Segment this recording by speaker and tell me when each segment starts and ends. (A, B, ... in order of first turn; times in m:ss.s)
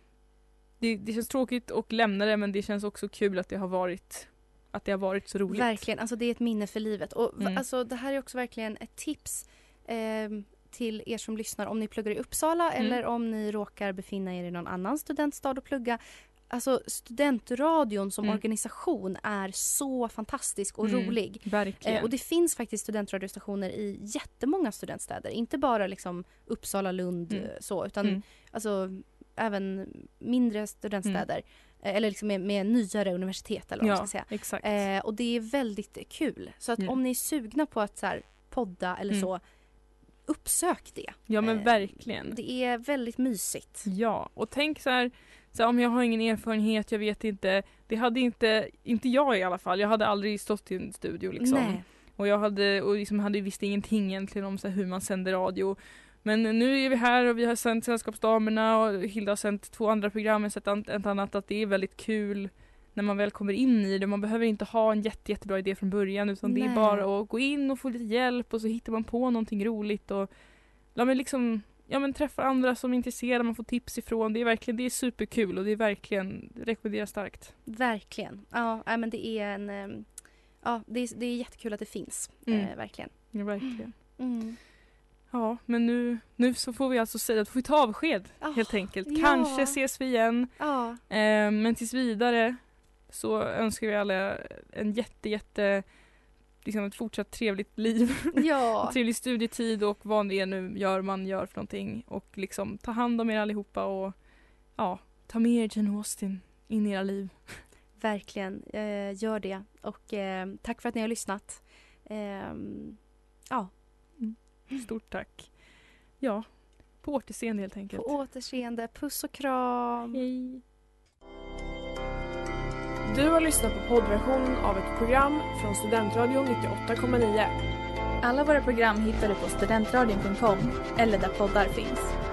0:00.8-0:05.8 A
0:05.5-0:39.4 B
0:20.8-0:22.1 A
0:33.8-0:34.8 A
0:40.3-0:43.9 B
0:41.3-0:42.3 A
0:43.8-1:10.3 A
0:51.4-0:51.9 B
1:06.4-1:07.0 B
1:10.9-1:17.5 A
1:17.6-1:20.1 B
1:20.6-1:24.6 B
1:22.4-1:24.0 A
1:25.3-1:35.9 A
1:28.4-1:29.8 B
1:30.6-1:31.0 B
1:36.6-1:44.2 A
1:38.3-1:39.0 B
1:44.7-1:47.6 A
1:48.0-1:53.0 B
1:53.5-1:53.8 B
1:54.2-1:55.6 A
1:56.2-1:58.1 A
1:57.9-2:00.2 B
2:00.1-2:00.6 A
2:03.0-2:07.5 C
2:08.2-2:12.1 D